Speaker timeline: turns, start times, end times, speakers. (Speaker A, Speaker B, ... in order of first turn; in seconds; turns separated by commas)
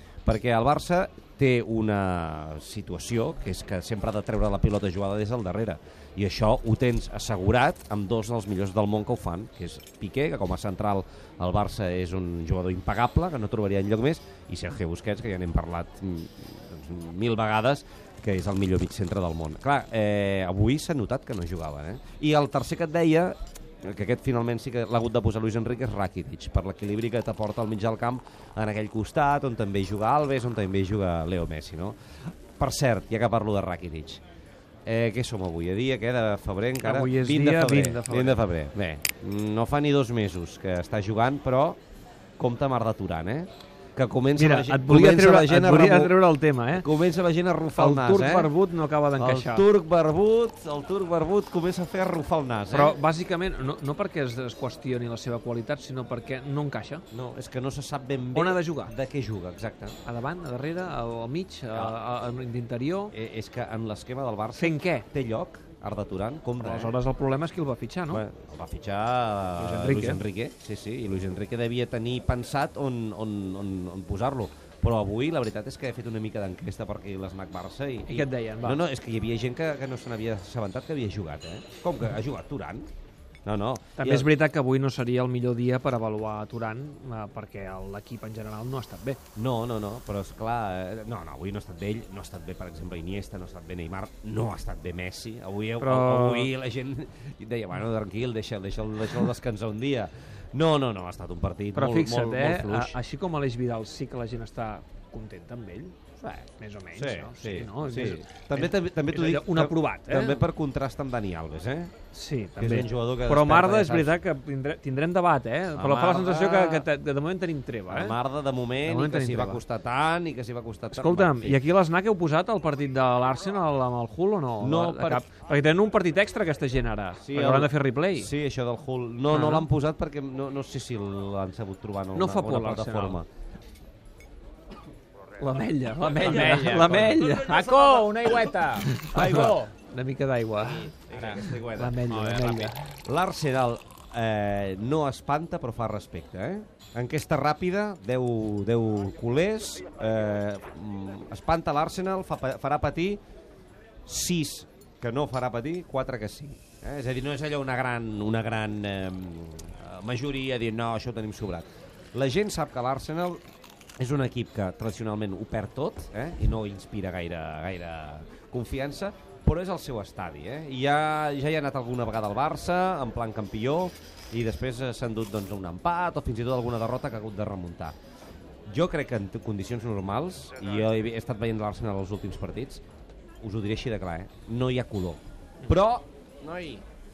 Speaker A: 0.3-34.2, Speaker A: 34.9-41.8, Speaker B: 36.8-38.4, Speaker A: 42.4-46.2, Speaker B: 44.4-46.9, Speaker A: 46.7-48.5, Speaker B: 47.8-49.6, Speaker A: 49.2-53.0, Speaker B: 52.7-57.0, Speaker A: 57.1-60.0, Speaker B: 58.3-58.9, Speaker B: 60.0-63.1, Speaker A: 63.1-67.0, Speaker B: 64.6-65.1, Speaker B: 66.6-68.2, Speaker A: 68.1-82.9, Speaker B: 69.6-70.2, Speaker B: 78.1-78.8, Speaker A: 83.5-84.3, Speaker B: 84.0-89.2, Speaker A: 89.4-103.0, Speaker B: 95.8-96.5, Speaker B: 101.7-106.0, Speaker A: 106.2-106.5, Speaker B: 106.6-110.4, Speaker A: 107.0-111.9, Speaker B: 112.1-118.2, Speaker A: 112.6-114.2, Speaker A: 115.8-116.9, Speaker A: 117.9-121.6, Speaker B: 118.8-119.6, Speaker B: 120.9-128.3, Speaker A: 124.6-125.2, Speaker A: 127.2-133.3, Speaker B: 129.3-129.7, Speaker B: 132.2-133.2, Speaker B: 135.4-137.6, Speaker A: 136.1-138.3, Speaker C: 136.2-139.7, Speaker B: 138.8-140.9, Speaker A: 139.1-139.6, Speaker A: 140.6-142.0, Speaker C: 141.1-141.4, Speaker B: 141.6-142.8, Speaker C: 142.1-142.7, Speaker A: 143.1-153.2, Speaker A: 154.1-163.4, Speaker A: 164.0-177.9, Speaker A: 178.7-182.8, Speaker A: 183.4-186.8